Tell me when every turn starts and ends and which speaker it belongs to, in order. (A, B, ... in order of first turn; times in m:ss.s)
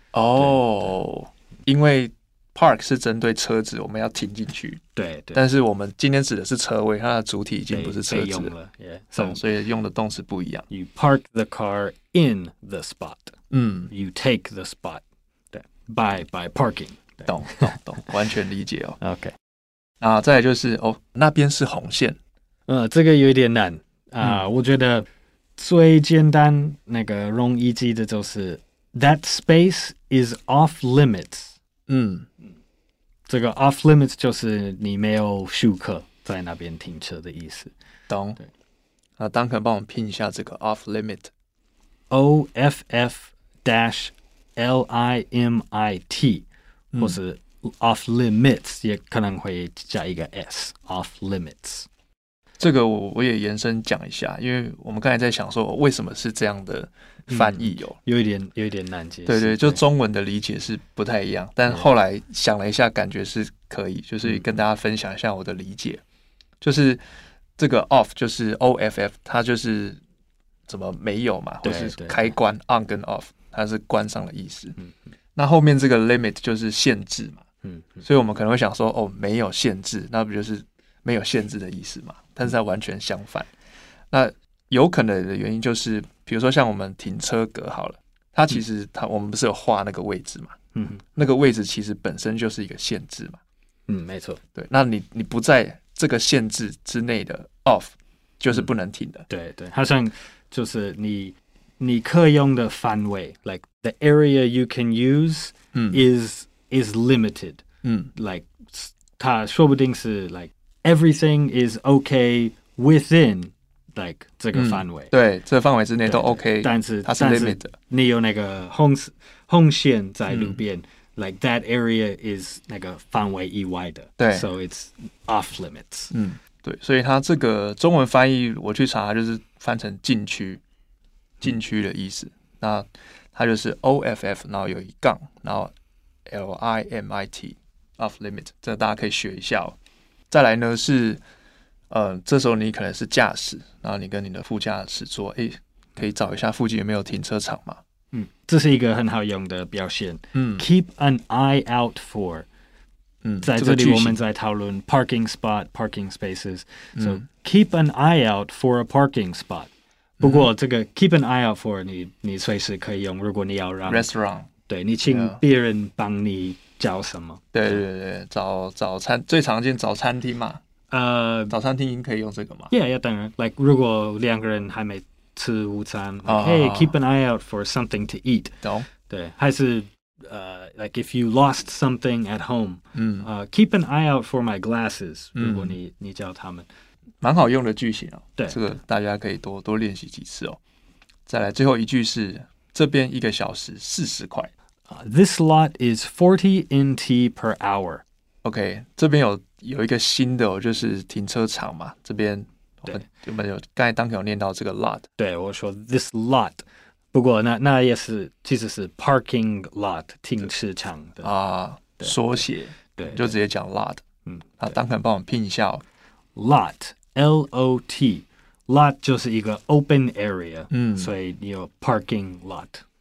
0:00.1-0:04.8 A
0:00.4-0:00.7 B
0:04.9-0:05.4 B
0:05.3-0:08.5 A
0:07.7-0:09.4 B
0:09.2-0:10.6 A
0:10.7-0:13.4 B
0:13.5-0:13.9 A
0:13.9-0:17.7 B
0:17.2-0:19.0 A
0:19.0-0:19.3 B
0:20.0-0:22.2 A
0:22.7-0:31.5 B
0:31.9-0:32.3 A
0:33.3-0:37.7 B
0:38.1-0:38.4 A
0:39.2-0:41.3 A
0:42.1-0:46.4 B
0:46.9-0:47.2 A
0:47.0-0:51.9 B
0:52.6-0:58.0 A
0:57.3-0:59.8 B
0:59.2-1:06.0 A
1:06.6-1:07.0 A
1:07.6-1:10.0 A
1:10.7-1:14.7 A
1:11.6-1:12.3 B
1:15.4-1:17.4 A
1:17.6-1:18.0 B
1:18.0-1:23.5 A
1:24.1-1:30.5 A
1:30.7-1:31.0 B
1:31.2-1:33.4 A
1:33.9-1:34.4 B
1:34.5-1:39.3 A
1:39.3-1:47.6 B
1:45.7-1:46.0 A
1:47.8-1:48.1 A
1:48.2-1:55.1 B
1:54.5-1:57.7 A
1:56.0-2:06.1 B
2:00.2-2:00.6 A
2:04.2-2:04.5 A
2:06.1-2:10.6 A
2:11.4-2:15.7 A
2:16.3-2:19.8 A
2:20.3-2:21.2 A
2:21.9-2:27.8 A
2:28.1-2:32.5 B
2:30.3-2:30.6 A
2:33.2-2:34.2 A
2:33.4-2:44.1 B
2:37.0-2:37.2 A
2:40.2-2:40.5 A
2:43.8-2:44.5 A
2:44.6-2:47.8 B
2:45.0-2:45.4 A
2:47.5-2:50.6 A
2:50.9-2:51.5 B
2:51.5-2:52.7 A
2:52.7-3:06.7 B
2:56.2-2:56.9 A
2:58.6-2:58.9 A
3:02.9-3:03.3 A
3:05.4-3:05.8 A
3:07.2-3:10.6 A
3:08.4-3:08.6 B
3:11.3-3:14.5 A
3:14.9-3:18.0 B
3:18.4-3:25.1 A
3:25.2-3:31.3 B
3:31.2-3:34.0 A
3:33.0-3:33.4 B
3:34.2-3:34.7 B
3:34.6-3:35.8 A
3:36.3-3:42.8 B
3:40.7-3:41.1 A